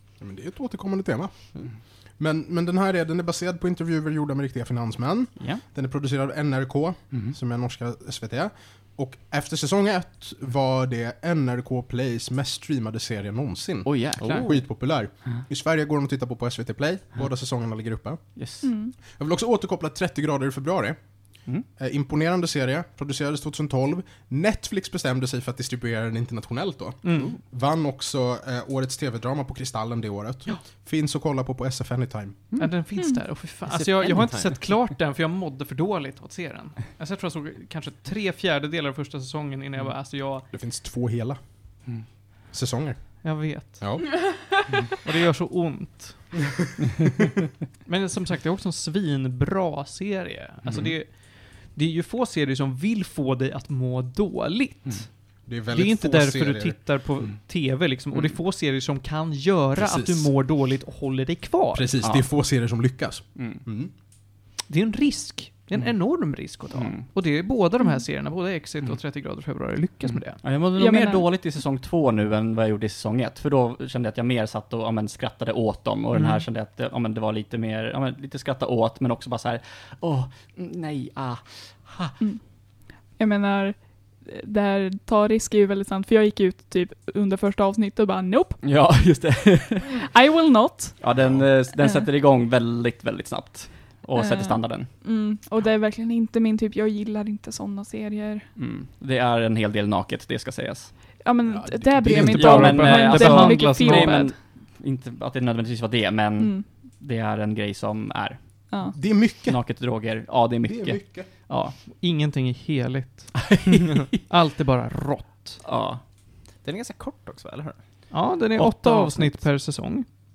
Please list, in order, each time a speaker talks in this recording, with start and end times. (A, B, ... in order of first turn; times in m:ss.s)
0:00.2-0:32.6 A
0:05.4-0:05.6 B
0:07.1-0:07.4 B
0:13.8-0:15.4 B
0:14.2-0:14.5 C
0:18.4-0:18.7 B
0:18.6-0:18.9 D
0:27.0-0:27.4 E
0:32.5-0:32.8 B
0:32.6-0:40.5 E
0:33.6-0:34.8 C
0:40.5-0:44.6 A
0:43.2-0:44.2 E
0:45.0-0:46.5 E
0:47.8-1:01.9 E
0:50.6-0:50.9 A
0:55.4-0:56.8 A
0:59.8-1:00.3 A
1:01.7-1:03.9 A
1:02.0-1:03.6 B
1:04.7-1:10.4 E
1:05.8-1:07.3 B
1:07.8-1:08.1 D
1:10.0-1:22.2 B
1:10.7-1:11.3 D
1:22.2-1:29.2 D
1:28.6-1:29.9 B
1:29.9-1:31.2 D
1:31.0-1:35.0 B
1:31.2-1:31.5 A
1:31.8-1:32.1 D
1:34.2-1:38.5 D
1:38.6-1:41.2 B
1:41.2-1:44.4 D
1:41.5-1:42.7 A
1:42.0-1:51.8 B
1:42.1-1:44.3 E
1:46.4-1:46.7 D
1:48.7-1:49.2 D
1:48.9-1:51.3 A
1:51.8-1:53.7 E
1:53.5-1:54.2 B
1:54.3-1:55.6 E
1:55.6-1:56.1 B
1:56.6-1:58.2 C
1:58.1-2:00.1 E
1:58.5-1:59.4 B